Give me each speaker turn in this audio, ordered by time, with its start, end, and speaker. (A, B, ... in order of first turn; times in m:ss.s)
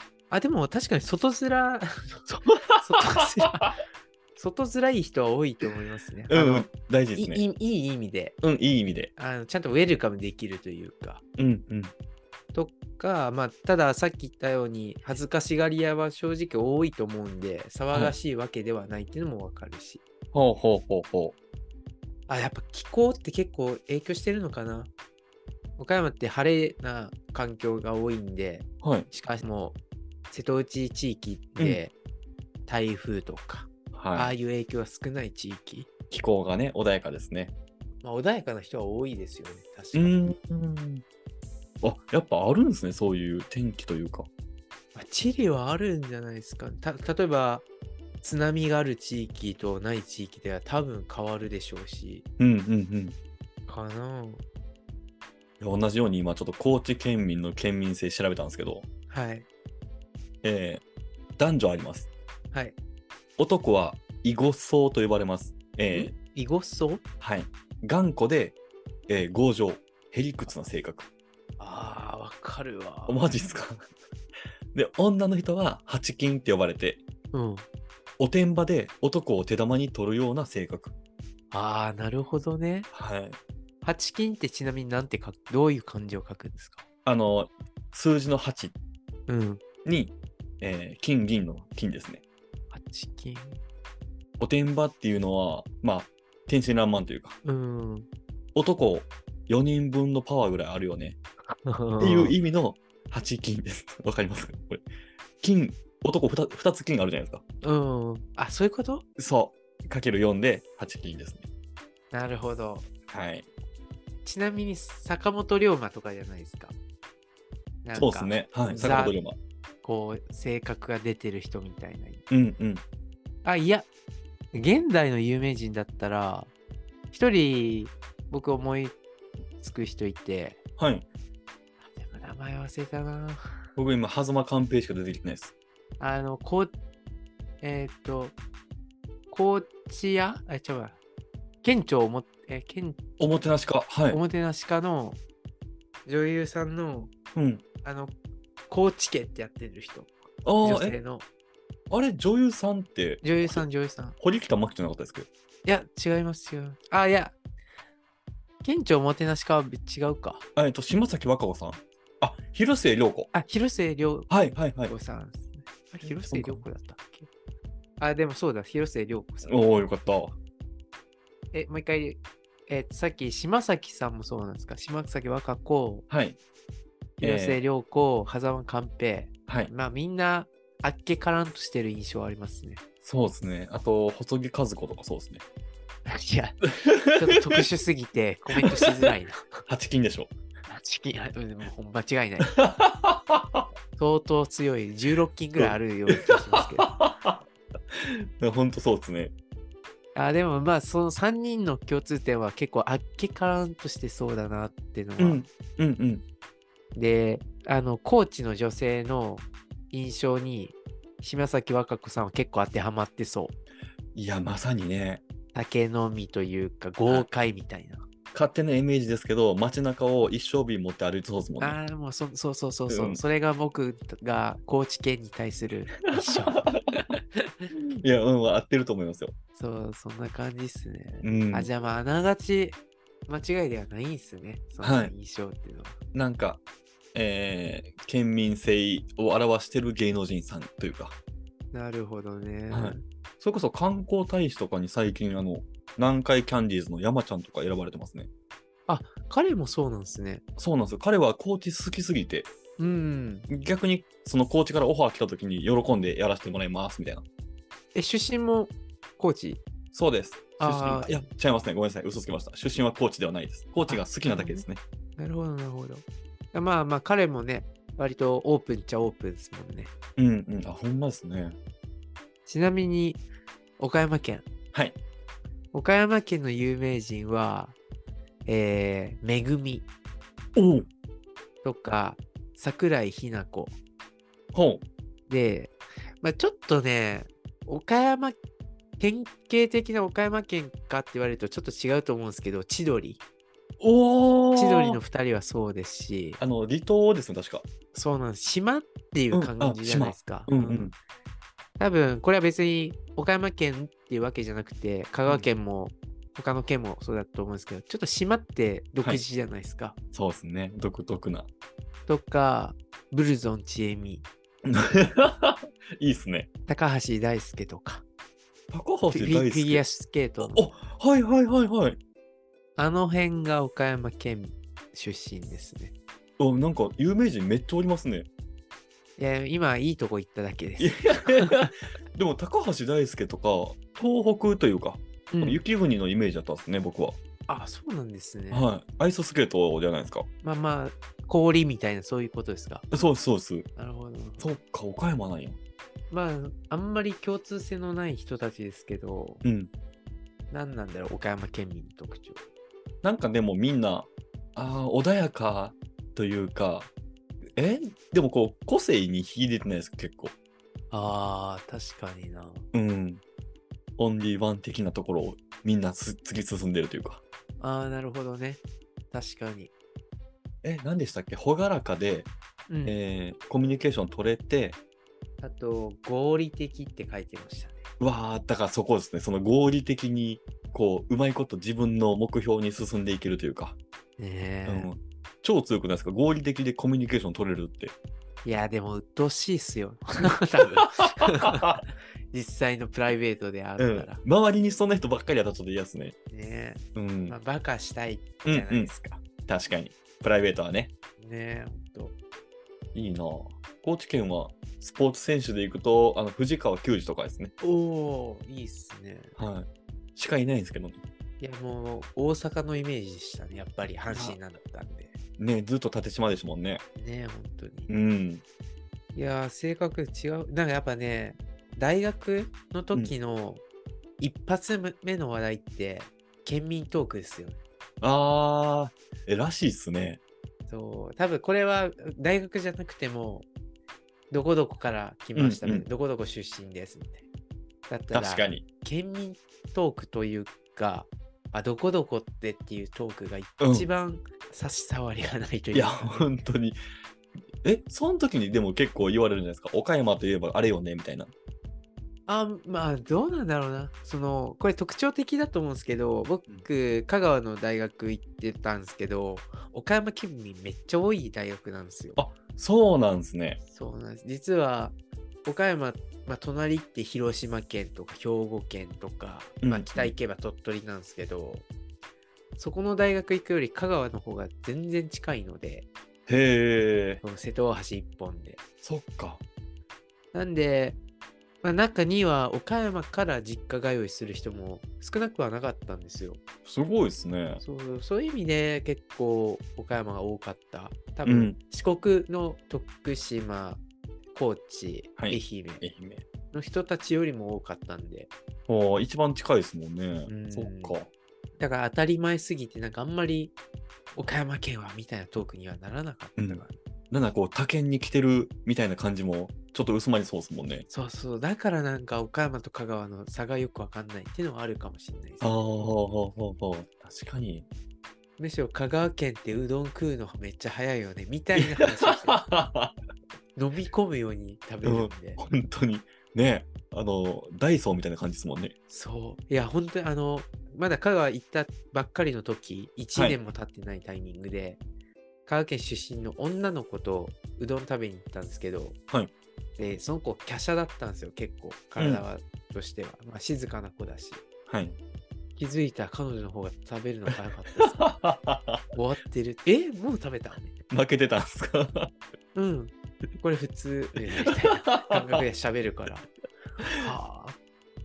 0:00.3-0:03.7 A
0:02.5-0:03.7 B
0:04.4-0:08.4 A
0:06.3-0:07.4 B
0:08.4-0:09.1 B
0:09.2-0:11.2 A
0:11.4-0:11.9 B
0:12.5-0:20.0 A
0:20.3-0:21.4 B
0:22.3-0:24.9 A
0:25.8-0:29.8 A
0:28.8-0:29.1 B
0:30.3-0:31.9 A
0:32.7-0:35.9 A
0:33.9-0:34.3 B
0:36.1-0:37.5 B
0:38.0-0:40.3 A
0:39.9-0:41.0 B
0:41.8-0:44.3 B
0:45.0-0:47.7 A
0:48.2-0:52.2 A
0:52.4-0:53.2 B
0:53.7-0:54.4 A
0:55.6-0:58.9 B
0:59.1-0:59.5 A
1:00.4-1:00.8 B
1:01.4-1:02.1 B
1:03.4-1:06.1 B
1:05.9-1:07.0 A
1:07.2-1:08.6 B
1:09.1-1:11.1 B
1:11.6-1:13.2 A
1:13.1-1:13.9 B
1:14.7-1:17.0 B
1:17.3-1:17.7 A
1:18.2-1:20.9 B
1:21.5-1:22.9 A
1:22.9-1:23.4 B
1:23.8-1:26.8 A
1:27.0-1:28.7 B
1:29.3-1:29.6 A
1:29.8-1:32.2 B
1:32.7-1:33.6 A
1:34.4-1:37.4 B
1:37.4-1:38.1 A
1:38.6-1:41.2 B
1:41.6-1:42.4 A
1:42.0-1:44.8 B
1:45.4-1:47.4 B
1:47.6-1:49.0 A
1:49.2-1:51.5 B
1:52.1-1:52.9 A
1:53.1-1:53.5 B
1:54.2-1:56.8 A
1:57.8-1:59.2 A
1:58.0-1:59.4 B
1:59.8-2:02.2 A
2:02.3-2:02.8 B
2:03.4-2:03.9 A
2:04.5-2:06.5 A
2:07.1-2:09.0 A
2:09.6-2:10.6 A
2:10.8-2:11.0 B
2:11.8-2:13.6 A
2:13.8-2:15.5 B
2:16.0-2:16.7 A
2:17.6-2:18.4 A
2:19.3-2:21.0 A
2:21.6-2:23.0 A
2:23.2-2:24.2 B
2:24.1-2:25.2 A
2:26.1-2:27.1 A
2:27.4-2:27.6 B
2:27.8-2:28.1 A
2:28.7-2:30.1 A
2:30.4-2:31.0 B
2:30.6-2:31.2 A
2:31.9-2:33.6 B
2:33.2-2:34.2 A
2:34.2-2:35.3 B
2:35.6-2:37.4 A
2:38.6-2:40.4 A
2:40.6-2:43.3 B
2:43.3-2:44.3 A
2:44.3-2:44.9 B
2:44.9-2:47.3 A
2:46.0-2:46.6 B
2:48.0-2:49.5 A
2:49.5-2:50.4 B
2:51.5-2:56.1 A
2:56.1-2:56.4 B
2:57.2-3:02.8 A
2:57.2-2:57.6 B
3:03.0-3:05.4 B
3:06.1-3:09.6 A
3:06.7-3:07.6 B
3:08.6-3:08.9 B
3:09.7-3:10.3 B
3:10.7-3:12.6 A
3:12.5-3:13.7 B
3:14.0-3:16.9 A
3:15.6-3:17.4 B
3:17.9-3:19.3 B
3:20.2-3:25.4 A
3:25.2-3:26.2 B
3:27.0-3:33.6 A
3:34.2-3:35.2 B
3:35.5-3:38.1 A
3:38.3-3:41.8 B
3:41.6-3:47.7 A
3:42.9-3:43.2 B
3:46.1-3:46.8 B
3:47.7-3:49.3 B
3:49.6-3:56.0 A
3:51.2-3:51.7 B
3:54.8-3:55.1 B
3:56.1-3:56.6 B
3:57.1-4:01.2 B
4:01.7-4:03.0 A
4:02.7-4:08.3 B
4:08.9-4:10.4 A
4:10.6-4:12.5 B
4:12.8-4:13.5 A
4:13.5-4:17.2 B
4:17.9-4:19.6 A
4:19.9-4:24.8 B
4:20.6-4:21.2 A
4:23.9-4:24.6 A
4:25.2-4:29.9 A
4:30.2-4:31.6 B
4:32.5-4:33.2 A
4:33.8-4:34.5 A
4:35.7-4:37.8 A
4:38.5-4:39.8 A
4:40.6-4:40.9 B
4:41.6-4:43.8 A
4:44.5-4:44.8 B
4:45.3-4:48.4 A
4:49.0-4:53.2 A
4:53.8-4:55.0 B
4:54.6-4:56.4 A
4:56.4-4:57.7 B
4:57.9-5:00.9 A
4:59.3-5:00.9 B
5:01.8-5:10.0 A
5:10.1-5:11.5 B
5:12.1-5:14.2 A
5:14.6-5:16.5 B
5:16.7-5:18.0 A
5:18.7-5:19.8 B
5:19.1-5:20.6 A
5:20.4-5:22.0 B
5:22.8-5:25.9 A
5:26.4-5:28.3 B
5:29.2-5:31.7 A
5:30.8-5:37.2 B
5:35.3-5:35.6 A
5:37.5-5:38.7 A
5:38.5-5:40.3 B
5:40.4-5:42.9 A
5:42.9-5:43.7 B
5:43.8-5:44.5 A
5:44.4-5:45.6 B
5:46.1-5:49.4 A
5:49.4-5:49.7 B
5:50.5-5:52.4 A
5:53.0-5:56.9 B
5:57.6-6:00.3 B
6:00.9-6:02.6 A
6:02.7-6:03.2 B
6:04.0-6:07.2 B
6:07.6-6:08.6 A
6:09.1-6:09.7 A
6:10.6-6:12.3 B
6:12.7-6:13.0 A
6:12.8-6:14.8 B
6:15.4-6:17.9 A
6:18.0-6:23.8 B
6:24.2-6:24.9 A
6:24.7-6:28.0 B
6:28.4-6:34.2 A
6:30.8-6:31.8 B
6:33.8-6:36.2 B
6:36.3-6:39.2 A
6:37.0-6:37.4 B
6:38.4-6:40.9 B
6:41.2-6:42.2 A
6:43.0-6:47.5 B
6:47.6-6:49.3 A
6:49.4-6:51.0 B
6:51.4-6:55.2 A
6:55.4-6:56.8 B
6:57.0-6:57.9 A
6:57.9-6:58.4 B
6:59.1-7:03.6 A
7:04.2-7:07.6 A
7:08.0-7:10.2 B
7:10.7-7:13.5 A
7:14.3-7:17.2 A
7:15.4-7:15.9 B
7:17.9-7:26.3 A
7:18.1-7:18.6 B
7:23.6-7:23.9 B
7:25.7-7:26.8 B
7:27.6-7:31.3 B
7:32.3-7:42.2 A
7:42.2-7:43.6 B
7:43.7-7:51.7 A
7:49.6-7:50.1 B
7:52.6-7:55.9 A
7:56.3-7:57.2 B
7:57.2-7:58.6 A
7:58.8-7:59.4 B
8:00.3-8:01.0 A
8:01.6-8:06.4 A
8:06.6-8:07.6 B
8:07.6-8:13.8 A
8:11.2-8:11.6 B
8:14.3-8:15.8 A
8:15.2-8:16.2 B
8:16.5-8:18.3 A
8:18.7-8:21.1 B
8:20.3-8:21.0 A
8:21.6-8:23.5 A
8:24.2-8:26.8 A
8:26.4-8:30.9 B
8:30.9-8:35.5 A
8:35.4-8:37.7 B
8:38.4-8:42.4 A
8:41.6-8:42.9 B
8:43.6-8:45.4 A
8:44.8-8:48.7 B
8:48.9-8:54.8 A
8:55.5-8:59.0 A
8:59.8-9:04.4 A
9:02.0-9:02.2 B
9:04.7-9:05.0 B
9:05.6-9:08.0 A
9:08.0-9:08.9 B
9:08.9-9:10.8 A
9:10.9-9:12.1 B
9:12.6-9:16.2 A
9:14.9-9:15.2 B
9:16.8-9:17.6 A